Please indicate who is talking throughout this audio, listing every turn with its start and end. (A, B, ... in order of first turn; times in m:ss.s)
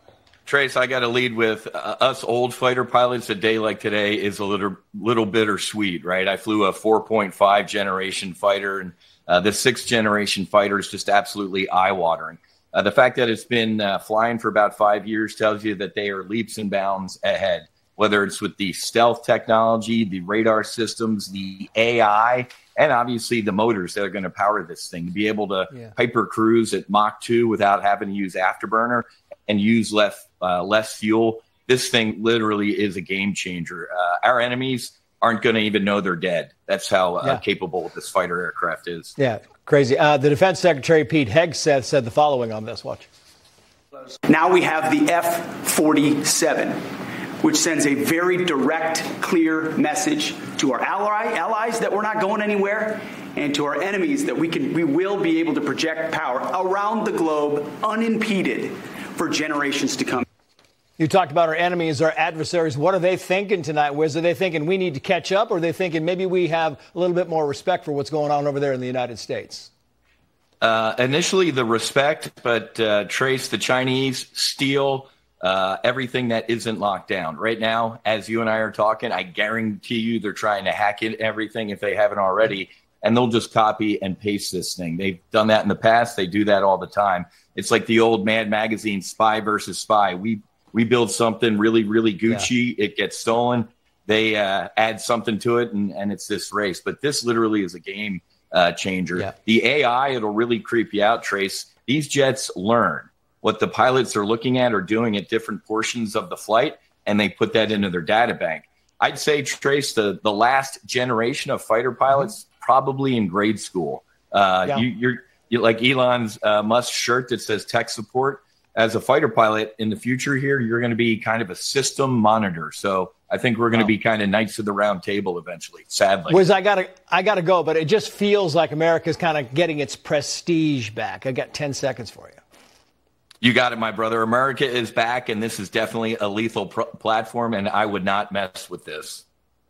0:00.5-0:39.1 A
0:39.2-0:43.1 B
0:44.3-0:46.8 C
0:47.4-1:00.2 C
1:01.0-1:09.7 B
1:10.6-2:06.4 A
2:06.3-2:12.4 B
2:13.4-2:19.2 A